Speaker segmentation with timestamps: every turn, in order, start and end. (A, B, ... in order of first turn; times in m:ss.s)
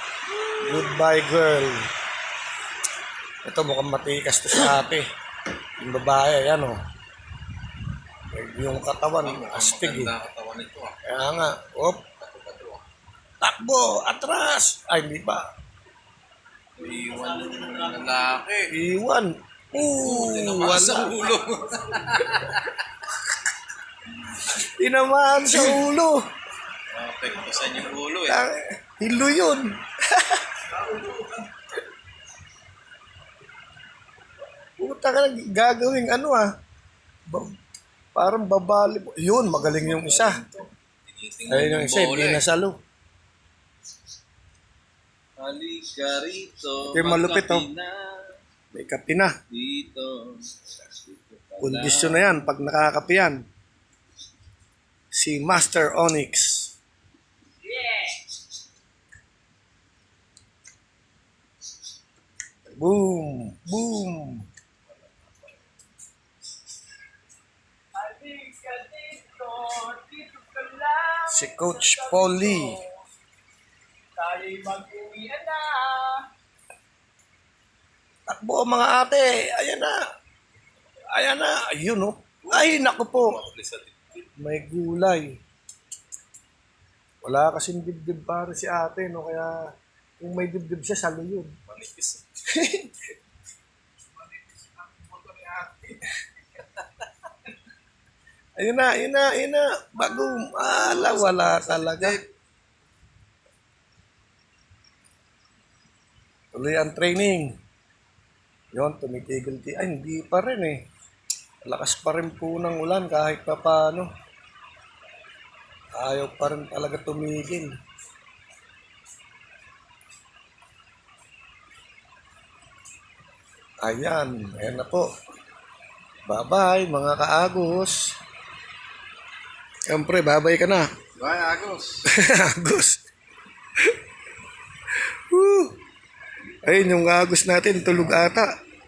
0:00.3-0:01.0 A
0:00.6-0:01.8 B
0:03.4-0:05.0 B
0:05.8-0:06.8 B
0:08.3-0:10.1 B
0:09.2-0:11.0 A
0:11.0-0:12.0 B
0:12.2-0:12.8 A
0:13.4-0:15.4 B
0:16.8-0:18.7 A
0:18.7-0:21.3 B
0:19.8-0:22.8 A
0:24.3-0:26.2 B
0:25.5-0:25.8 A
0:26.9-0:28.4 A
0:28.3-0:30.9 B
0:30.9-0:31.3 A
0:34.8-0:36.5 B
0:38.1-0:40.4 B
0:39.5-0:42.4 A
0:41.5-0:42.8 B
0:45.4-0:48.4 A
0:46.9-0:47.7 B
0:48.7-0:49.3 B
0:49.5-0:52.4 A
0:51.6-0:53.4 B
0:55.1-0:56.7 B
0:57.7-0:58.2 C
1:02.8-1:04.5 B
1:08.0-1:12.7 C
1:11.3-1:12.8 B
1:14.2-1:16.2 C
1:18.3-1:20.0 B
1:21.1-1:23.4 B
1:22.5-1:24.2 A
1:24.4-1:25.3 B
1:27.2-1:29.5 B
1:30.2-1:31.5 B
1:31.7-1:32.5 A
1:32.5-1:33.0 B
1:34.8-1:35.7 C
1:38.6-1:42.2 B
1:40.0-1:42.3 A
1:46.5-1:47.5 B
1:48.7-1:50.8 B
1:51.6-1:54.1 B
1:56.0-1:57.7 B
2:03.8-2:05.1 B
2:06.3-2:08.1 B
2:09.9-2:10.9 B
2:11.2-2:12.1 A
2:12.0-2:13.0 B
2:15.3-2:15.7 B
2:16.6-2:18.5 B